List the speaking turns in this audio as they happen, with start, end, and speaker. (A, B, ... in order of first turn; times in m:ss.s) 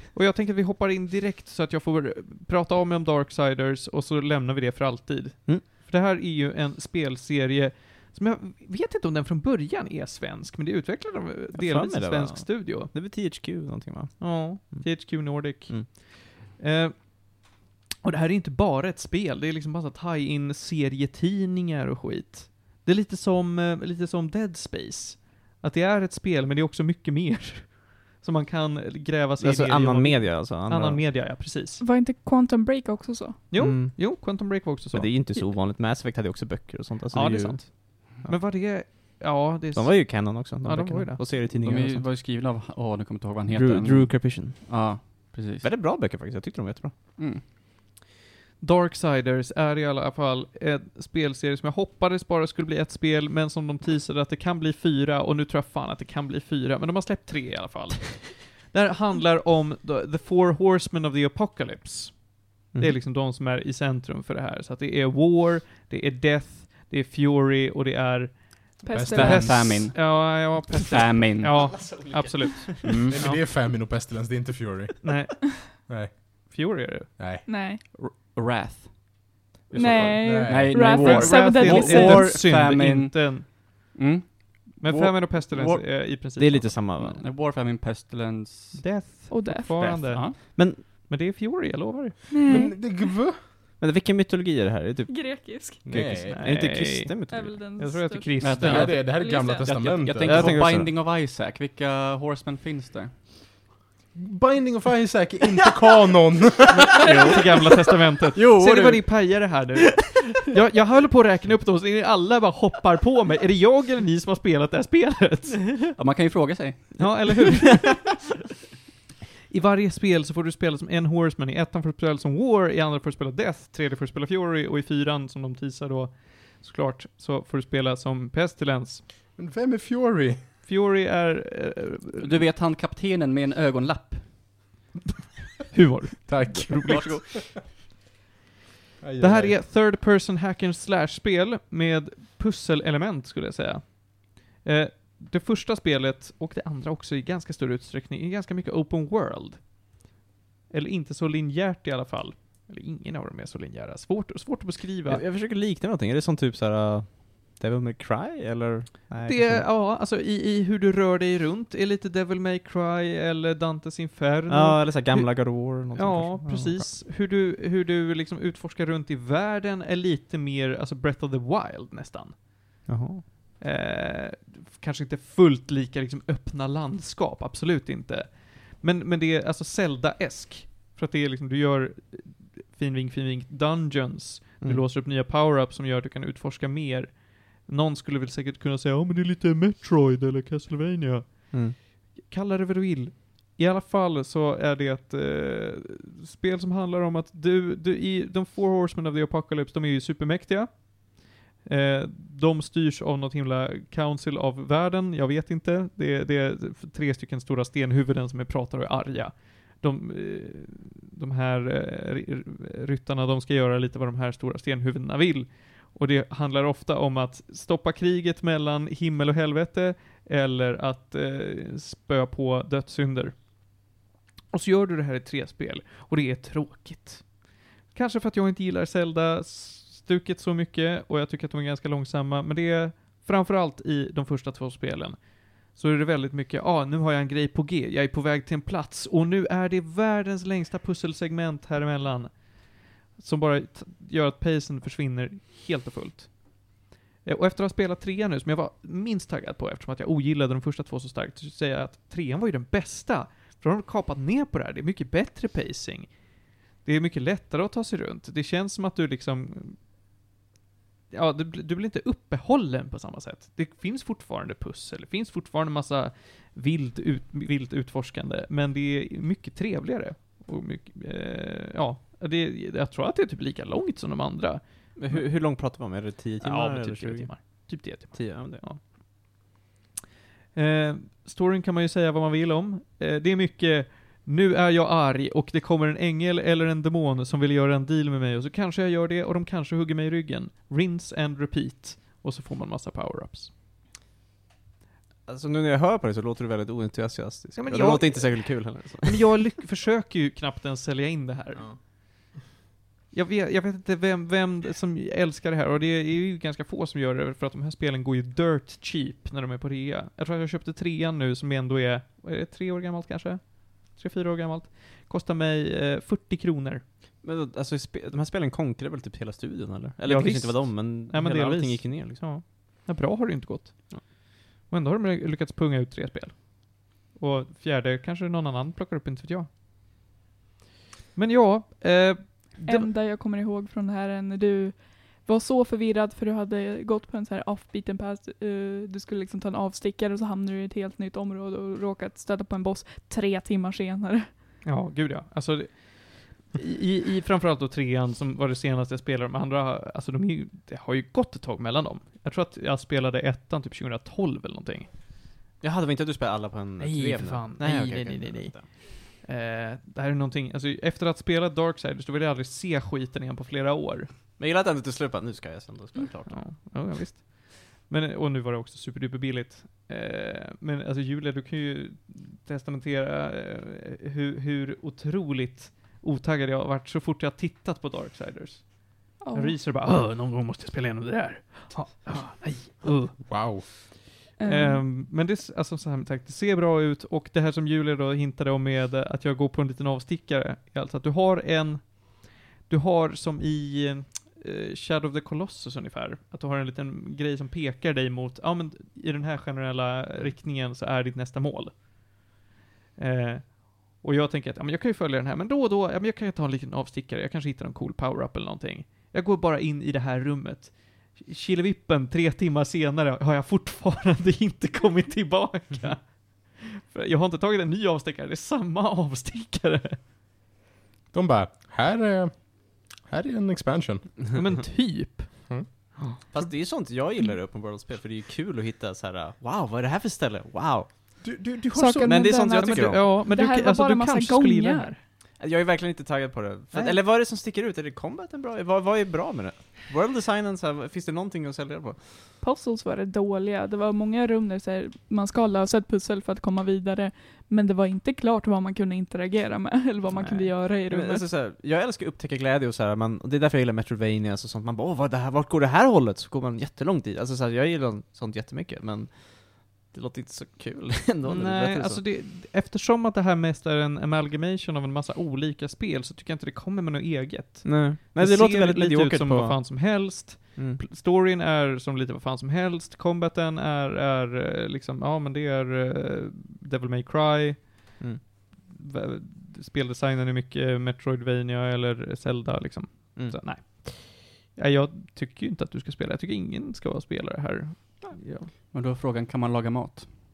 0:00.1-0:12.9 A
0:11.5-0:15.9 B
0:14.2-0:17.5 A
0:18.0-0:31.8 A
0:29.4-0:31.0 B
0:31.8-0:33.5 C
0:33.5-0:35.2 A
0:33.5-0:38.4 B
0:37.1-0:41.4 A
0:39.7-0:42.1 B
0:41.5-0:45.7 D
0:43.5-0:44.9 B
0:45.6-0:46.9 B
0:47.2-0:47.4 D
0:48.6-1:13.4 A
1:08.8-1:09.6 C
1:08.9-1:09.8 E
1:09.1-1:11.8 D
1:11.6-1:12.8 B
1:12.8-1:16.1 E
1:12.9-1:13.2 D
1:15.0-1:15.8 A
1:16.5-1:17.1 A
1:17.2-1:17.4 E
1:17.4-1:17.8 C
1:17.9-1:25.9 D
1:19.7-1:22.3 C
1:20.2-1:21.0 E
1:20.7-1:23.5 A
1:24.8-1:27.2 A
1:26.4-1:27.2 B
1:27.2-1:28.9 D
1:28.8-1:32.3 A
1:29.3-1:30.2 C
1:29.8-1:30.4 D
1:30.5-1:30.8 B
1:32.3-1:33.1 C
1:32.4-1:33.4 E
1:33.8-1:37.6 B
1:35.1-1:36.4 C
1:35.8-1:36.4 E
1:36.4-1:38.9 A
1:37.3-1:39.6 C
1:38.4-1:43.1 D
1:38.6-1:40.6 E
1:40.2-1:40.9 B
1:44.1-1:47.4 E
1:47.0-1:55.8 A
1:48.3-1:49.1 D
1:56.0-1:57.3 D
1:57.0-1:58.0 B
1:57.0-1:58.1 A
1:59.5-2:09.1 A
2:09.4-2:10.4 E
2:10.6-2:12.3 A
2:12.2-2:14.4 D
2:15.7-2:17.1 A
2:16.3-2:17.3 E
2:16.8-2:17.3 D
2:19.0-2:19.6 E
2:19.2-2:29.7 A
2:30.7-2:35.2 A
2:35.1-2:39.7 B
2:39.2-2:52.4 A
2:44.5-2:46.9 B
2:52.8-2:53.2 B
2:53.6-3:43.4 A
3:44.5-4:19.8 A
4:21.1-4:35.2 A
4:35.0-4:38.6 B
4:36.4-4:38.8 A
4:40.5-4:53.5 A
4:55.3-4:59.2 B
4:57.6-5:01.8 A
5:03.1-5:16.8 A
5:17.2-5:22.2 B
5:20.0-5:24.1 A
5:24.7-5:29.5 A
5:31.1-5:32.9 A
5:32.6-5:44.3 C
5:44.6-5:54.9 A
5:55.6-5:58.7 B
5:56.8-6:04.1 A
6:04.4-6:06.5 B
6:06.3-6:41.8 A
6:19.2-6:19.6 C
6:23.2-6:23.7 E
6:24.4-6:24.8 C
6:43.0-7:00.0 A
7:01.1-7:04.2 E
7:04.3-7:06.4 A
7:06.3-7:11.2 B
7:11.3-7:15.0 A
7:11.7-7:15.0 C
7:12.0-7:13.1 B
7:15.4-7:22.2 B
7:16.7-7:17.0 A
7:22.4-7:31.3 C
7:30.1-7:42.0 B
7:41.2-8:08.5 A
7:47.6-7:50.8 B
8:08.7-8:10.1 D